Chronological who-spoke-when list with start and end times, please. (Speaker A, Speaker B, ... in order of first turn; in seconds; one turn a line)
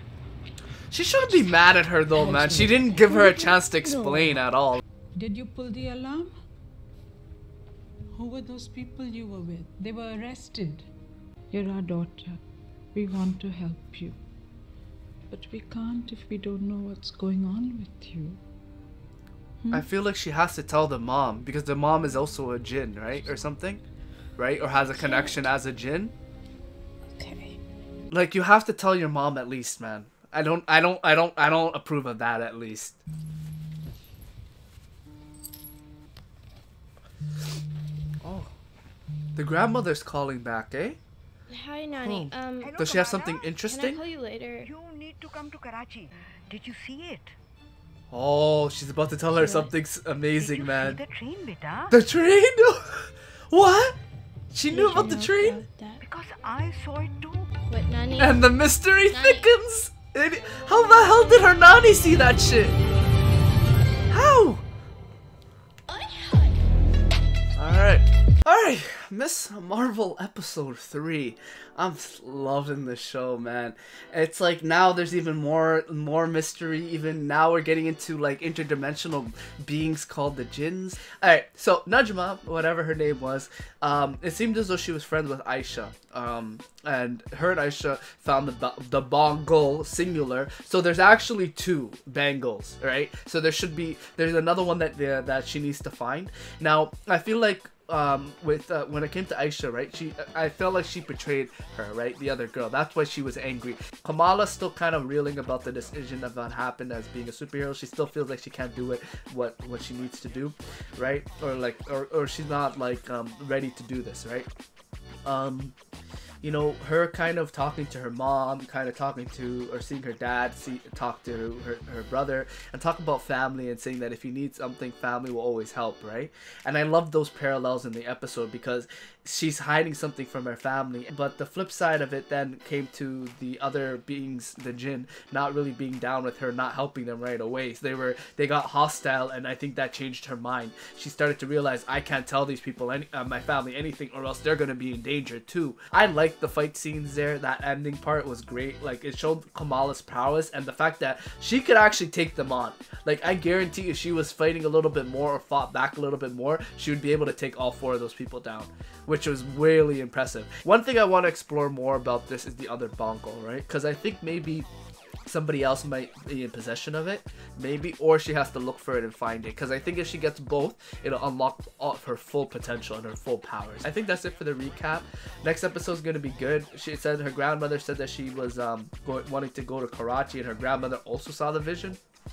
Speaker A: 0.9-4.8
Speaker B: 5.1-6.3
Speaker B: 8.1-10.9
Speaker B: 11.5-12.4
Speaker B: 12.9-14.1
Speaker B: 15.3-18.4
Speaker B: 19.6-19.9
Speaker A: 19.7-23.8
Speaker A: 24.4-26.1
Speaker C: 25.0-25.3
Speaker C: 27.2-27.6
Speaker A: 28.1-33.0
Speaker A: 38.2-38.5
Speaker A: 39.4-41.0
Speaker C: 41.5-42.9
Speaker A: 42.0-44.0
Speaker D: 42.8-43.5
Speaker C: 43.5-44.7
Speaker A: 48.1-51.0
Speaker D: 50.4-51.9
Speaker A: 51.9-54.0
Speaker A: 54.5-55.6
Speaker C: 54.7-56.0
Speaker D: 56.6-57.0
Speaker C: 57.7-58.4
Speaker A: 58.2-62.8
Speaker C: 59.1-59.5
Speaker A: 64.1-64.6
Speaker C: 65.9-66.6
Speaker A: 67.6-114.5
Speaker A: 115.2-115.7
Speaker A: 116.4-164.7
Speaker A: 165.2-182.0